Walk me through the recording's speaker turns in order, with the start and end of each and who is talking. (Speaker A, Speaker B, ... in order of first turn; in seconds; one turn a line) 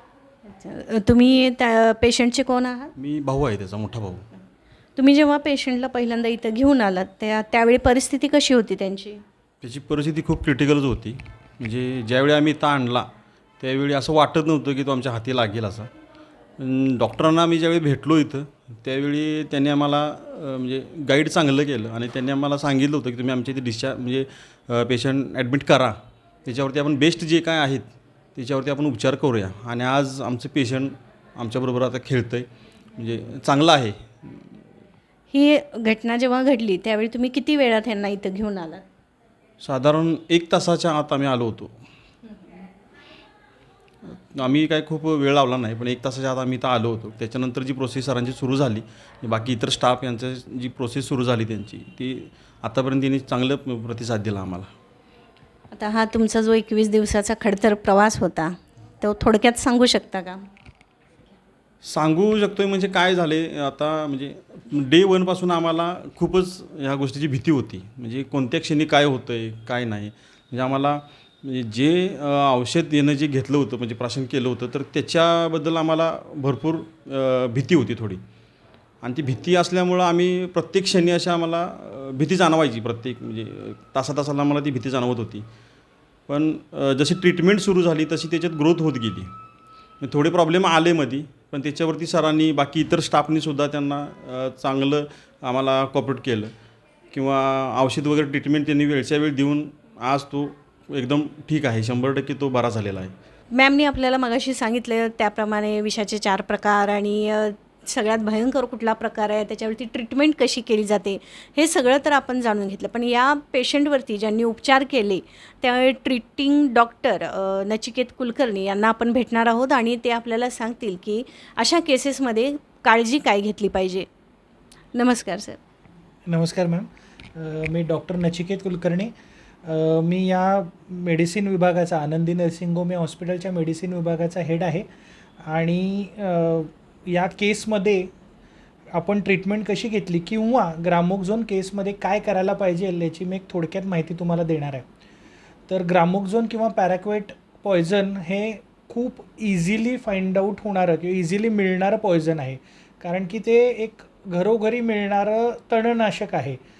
Speaker A: 0.5-2.9
Speaker B: 3.0-4.2
Speaker A: 5.0-9.2
Speaker B: 9.6-13.1
Speaker B: 13.6-15.9
Speaker B: 16.6-34.0
Speaker A: 35.3-38.8
Speaker B: 39.6-41.7
Speaker B: 44.1-54.7
Speaker A: 55.7-60.4
Speaker B: 61.8-78.2
Speaker B: 79.0-85.4
Speaker B: 86.3-89.3
Speaker B: 90.0-96.5
Speaker B: 97.1-103.1
Speaker A: 103.5-124.1
Speaker A: 124.9-125.6
Speaker C: 126.3-129.1
Speaker C: 129.6-134.8
Speaker C: 135.4-138.1
Speaker C: 138.9-144.8
Speaker C: 145.7-156.6